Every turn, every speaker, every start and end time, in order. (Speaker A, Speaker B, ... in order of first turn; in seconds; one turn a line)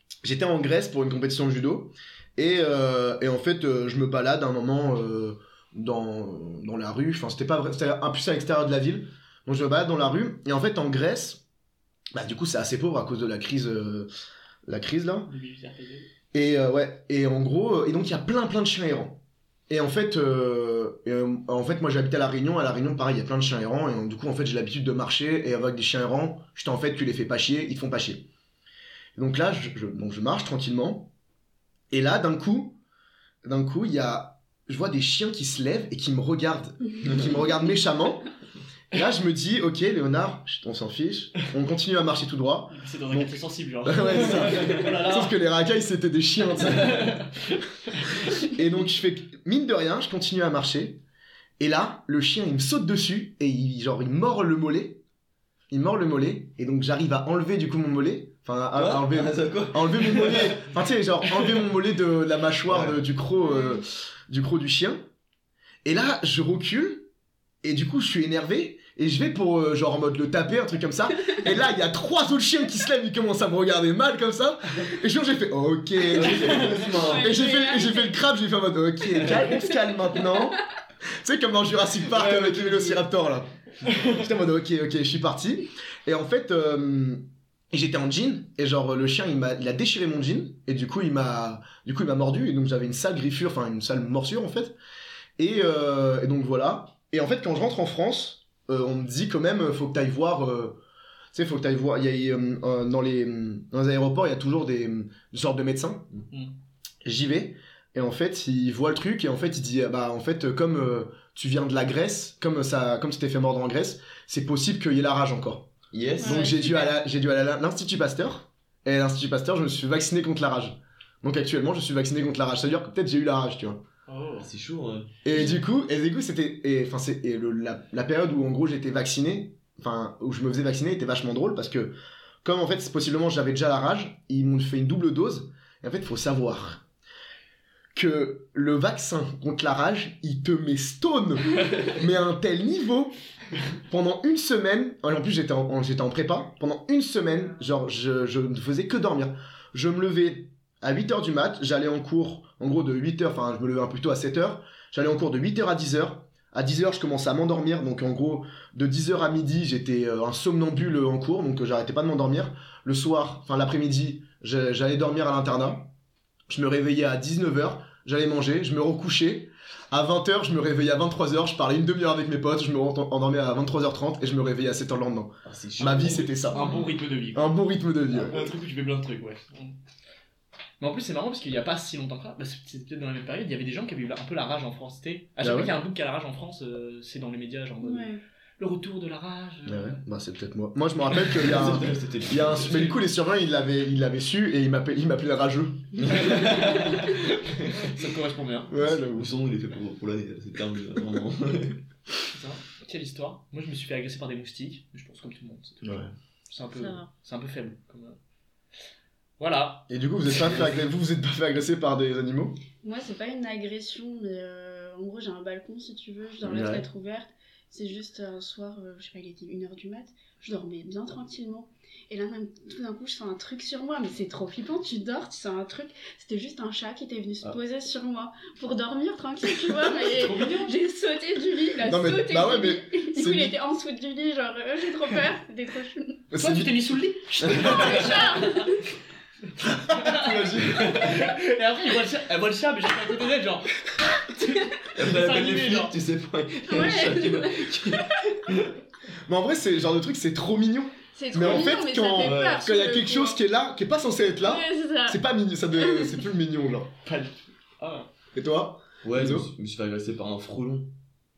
Speaker A: 0.2-11.4
Speaker A: 12.1-14.1
Speaker A: 14.7-15.3
Speaker B: 15.2-16.1
Speaker A: 16.3-28.3
Speaker A: 29.1-31.1
Speaker A: 31.9-32.8
Speaker A: 33.4-38.3
Speaker A: 38.9-47.2
Speaker B: 42.7-45.4
Speaker C: 44.4-44.7
Speaker B: 46.8-48.1
Speaker A: 48.3-51.0
Speaker A: 51.6-55.0
Speaker A: 55.7-65.0
Speaker C: 58.7-60.6
Speaker C: 62.7-63.0
Speaker D: 63.5-63.8
Speaker A: 65.8-67.1
Speaker A: 67.6-80.6
Speaker C: 76.1-77.4
Speaker D: 77.0-78.2
Speaker A: 81.2-94.7
Speaker C: 82.1-83.0
Speaker A: 95.4-100.8
Speaker A: 101.3-106.1
Speaker A: 107.0-123.8
Speaker C: 115.9-116.5
Speaker D: 116.2-117.0
Speaker B: 124.1-124.5
Speaker C: 124.4-125.1
Speaker A: 125.2-136.8
Speaker A: 137.9-143.1
Speaker A: 143.9-165.9
Speaker A: 166.5-176.7
Speaker C: 175.4-176.9
Speaker B: 176.4-177.5
Speaker A: 177.3-178.3
Speaker C: 178.1-178.4
Speaker B: 178.3-179.8
Speaker B: 180.8-190.0
Speaker A: 185.4-185.7
Speaker D: 187.8-188.2
Speaker A: 189.7-196.4
Speaker C: 191.2-193.0
Speaker C: 196.0-197.1
Speaker B: 196.2-198.9
Speaker A: 198.7-199.3
Speaker C: 199.1-201.8
Speaker B: 202.3-208.2
Speaker A: 205.8-206.1
Speaker D: 206.7-207.1
Speaker B: 209.4-210.5
Speaker A: 209.9-212.6
Speaker D: 212.8-236.2
Speaker A: 216.4-216.8
Speaker B: 229.8-230.7
Speaker A: 231.8-233.6
Speaker A: 236.3-236.8
Speaker B: 236.3-238.7
Speaker D: 237.6-238.8
Speaker A: 239.6-241.2
Speaker B: 239.8-245.9
Speaker C: 244.9-248.7
Speaker D: 246.7-248.1
Speaker A: 249.2-256.9
Speaker D: 251.2-253.4
Speaker C: 252.1-252.6
Speaker D: 254.4-255.2
Speaker D: 255.7-256.2
Speaker B: 257.0-258.1
Speaker A: 258.3-259.5
Speaker C: 259.0-260.9